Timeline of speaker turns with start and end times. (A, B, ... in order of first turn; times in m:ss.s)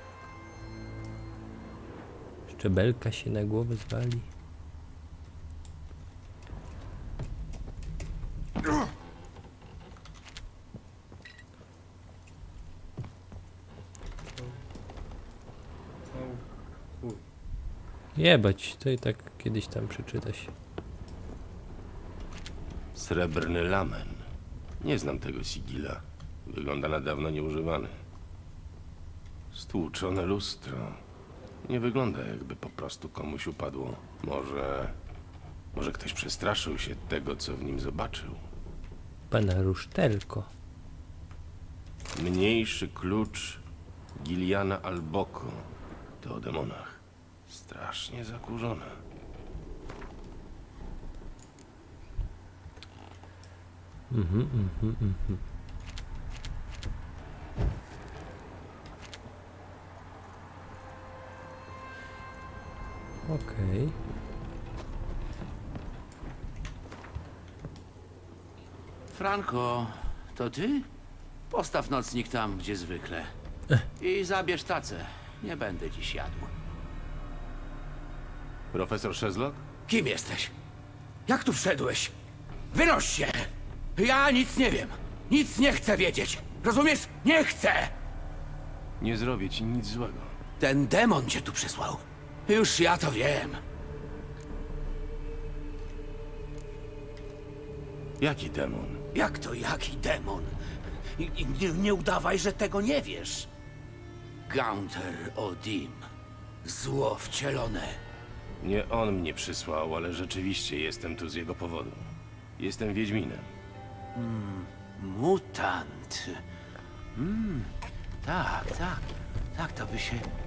0:02.5-0:04.3 A
0:18.2-0:20.5 A
0:22.9-0:24.2 B
0:24.8-0:28.0 B
0:29.5-0:31.0 B
0:31.6-0:35.0 B
0:35.7-0:38.4 B
0:39.3-0:40.5 A
0:42.2-0:43.6 B
0:44.2-0:45.7 B
0:46.2-0:49.0 B
0:54.1-0:55.4 A
1:03.3-1:04.0 A
1:09.1-1:10.9 C
1:11.5-1:13.3 C
1:14.0-1:16.5 C
1:18.7-1:19.6 B
1:19.9-1:20.5 C
1:21.3-1:22.1 C
1:22.7-1:27.9 C
1:29.0-1:30.3 B
1:30.6-1:33.6 C
1:38.2-1:39.0 B
1:39.1-1:40.6 C
1:41.2-1:43.5 C
1:44.5-1:46.0 C
1:46.6-1:48.0 C
1:48.6-1:53.5 B
1:54.2-1:56.4 C
1:57.2-1:57.7 C
1:58.2-2:00.3 C